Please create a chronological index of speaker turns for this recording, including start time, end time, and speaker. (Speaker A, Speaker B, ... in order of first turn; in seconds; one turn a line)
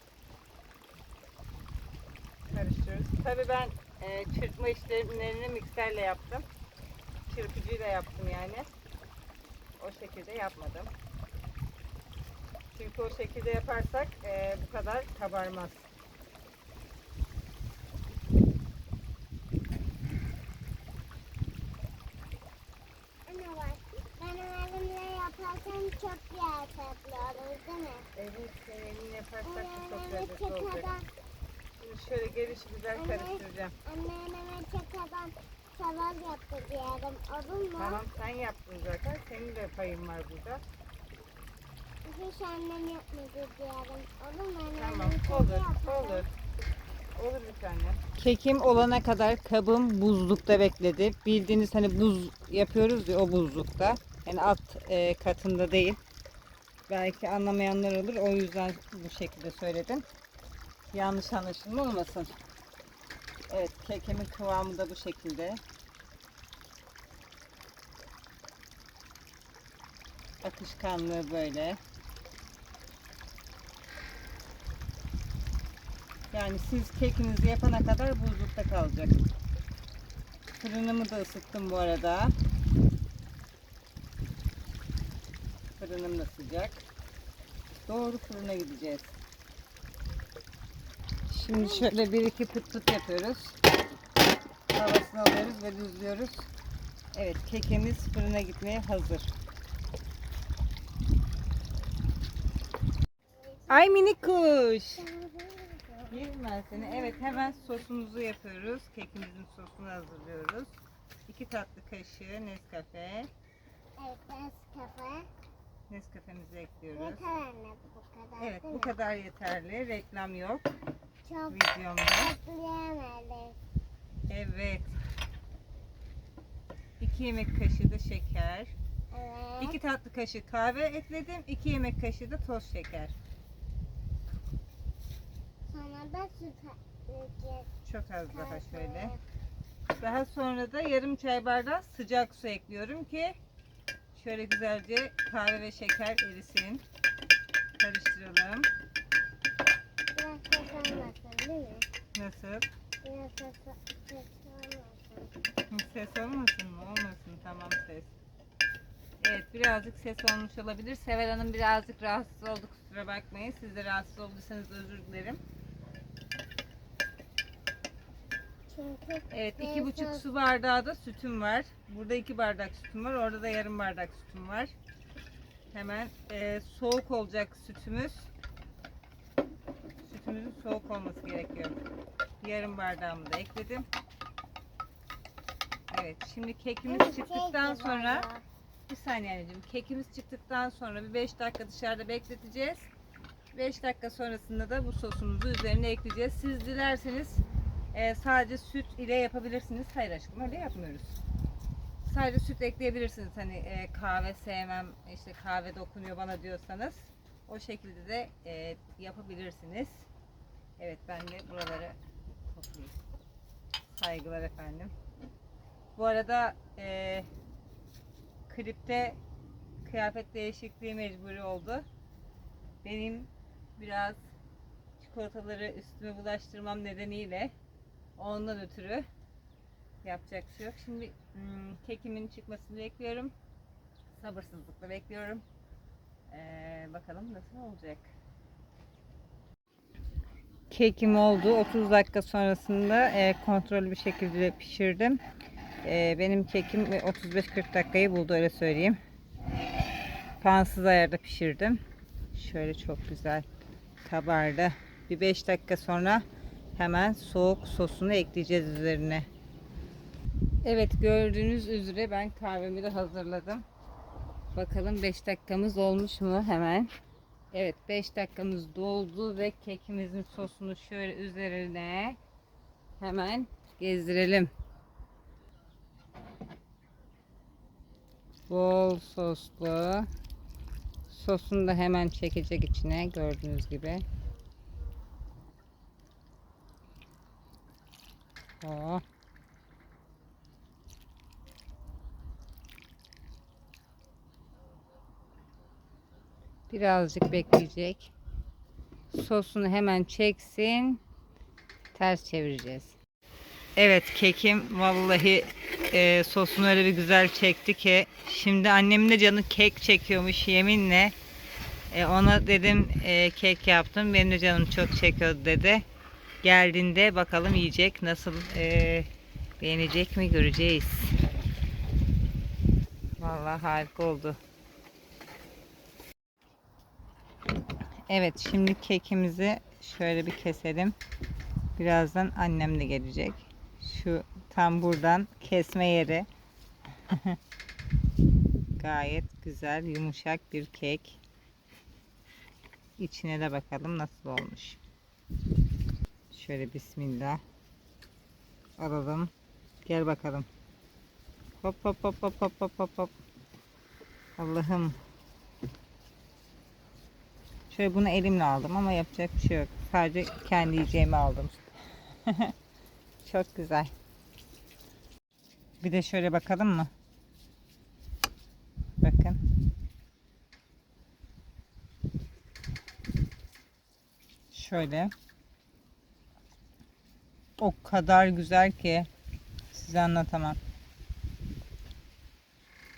Speaker A: 2.5-6.5
Speaker A: 7.3-8.7
Speaker A: 9.8-10.9
Speaker A: 12.8-15.9
Speaker B: 23.3-28.1
Speaker A: 28.2-30.9
Speaker B: 29.4-31.1
Speaker A: 31.8-33.7
Speaker B: 33.0-38.0
Speaker A: 37.8-40.6
Speaker B: 42.0-46.2
Speaker A: 44.8-46.3
Speaker A: 47.2-56.0
Speaker A: 56.9-60.0
Speaker A: 60.9-62.4
Speaker A: 63.5-65.6
Speaker A: 70.4-71.8
Speaker A: 76.3-79.2
Speaker A: 80.6-82.3
Speaker A: 85.8-86.8
Speaker A: 87.9-89.1
Speaker A: 91.3-93.5
Speaker B: 91.5-91.9
Speaker A: 94.7-96.5
Speaker A: 97.1-99.3
Speaker B: 103.4-103.9
Speaker A: 103.7-105.0
Speaker B: 105.0-107.5
Speaker A: 106.1-110.8
Speaker A: 111.3-113.3
Speaker B: 114.0-115.3
Speaker A: 115.9-117.2
Speaker B: 117.0-118.9
Speaker A: 118.4-120.6
Speaker B: 121.2-121.6
Speaker A: 121.5-122.3
Speaker B: 122.2-123.6
Speaker A: 124.3-125.0
Speaker A: 127.0-128.7
Speaker B: 129.1-129.8
Speaker A: 129.6-133.1
Speaker B: 135.7-137.7
Speaker A: 137.9-139.1
Speaker B: 138.3-139.2
Speaker A: 140.0-143.4
Speaker A: 144.1-146.8
Speaker A: 147.8-148.7
Speaker B: 150.2-151.8
Speaker A: 152.2-152.7
Speaker B: 153.0-155.3
Speaker A: 155.7-158.1
Speaker A: 159.2-165.4
Speaker B: 168.7-170.2
Speaker A: 169.3-174.7
Speaker A: 175.7-178.3
Speaker A: 180.1-181.7
Speaker A: 182.4-183.9
Speaker A: 185.9-188.3
Speaker B: 186.9-188.4
Speaker A: 188.9-192.9
Speaker A: 193.5-201.2
Speaker A: 202.0-210.1
Speaker A: 210.8-212.0
Speaker A: 212.5-212.9
Speaker A: 213.9-214.9
Speaker A: 216.0-217.3
Speaker A: 218.5-219.2
Speaker A: 219.8-221.8
Speaker A: 222.8-224.2
Speaker A: 225.0-227.5
Speaker A: 228.2-229.1
Speaker A: 230.0-233.3
Speaker A: 234.2-235.4
Speaker A: 236.3-238.1
Speaker A: 240.7-245.2
Speaker A: 245.8-249.0
Speaker A: 250.4-251.8
Speaker A: 252.3-253.5
Speaker A: 254.0-256.2
Speaker A: 256.8-259.3
Speaker A: 260.6-263.6
Speaker A: 264.6-266.9
Speaker A: 267.5-272.2
Speaker A: 273.0-274.5
Speaker A: 278.5-280.1
Speaker A: 281.1-284.1
Speaker A: 288.6-289.0
Speaker A: 296.7-298.1
Speaker A: 299.1-301.0
Speaker A: 301.9-303.0
Speaker A: 303.8-311.1
Speaker A: 311.9-315.9
Speaker A: 316.4-319.1
Speaker A: 319.6-321.1
Speaker A: 323.2-324.4
Speaker A: 328.1-331.0
Speaker A: 331.8-336.3
Speaker A: 337.1-337.4
Speaker A: 338.8-341.2
Speaker A: 343.0-344.8
Speaker A: 346.3-347.4
Speaker A: 348.8-349.3
Speaker A: 349.9-350.5
Speaker A: 351.6-353.1
Speaker A: 354.4-355.0
Speaker A: 357.7-361.7
Speaker A: 362.3-362.5
Speaker A: 363.2-363.9
Speaker A: 365.8-366.9
Speaker A: 369.0-369.4
Speaker A: 374.5-375.1
Speaker A: 377.6-379.1
Speaker A: 379.7-380.6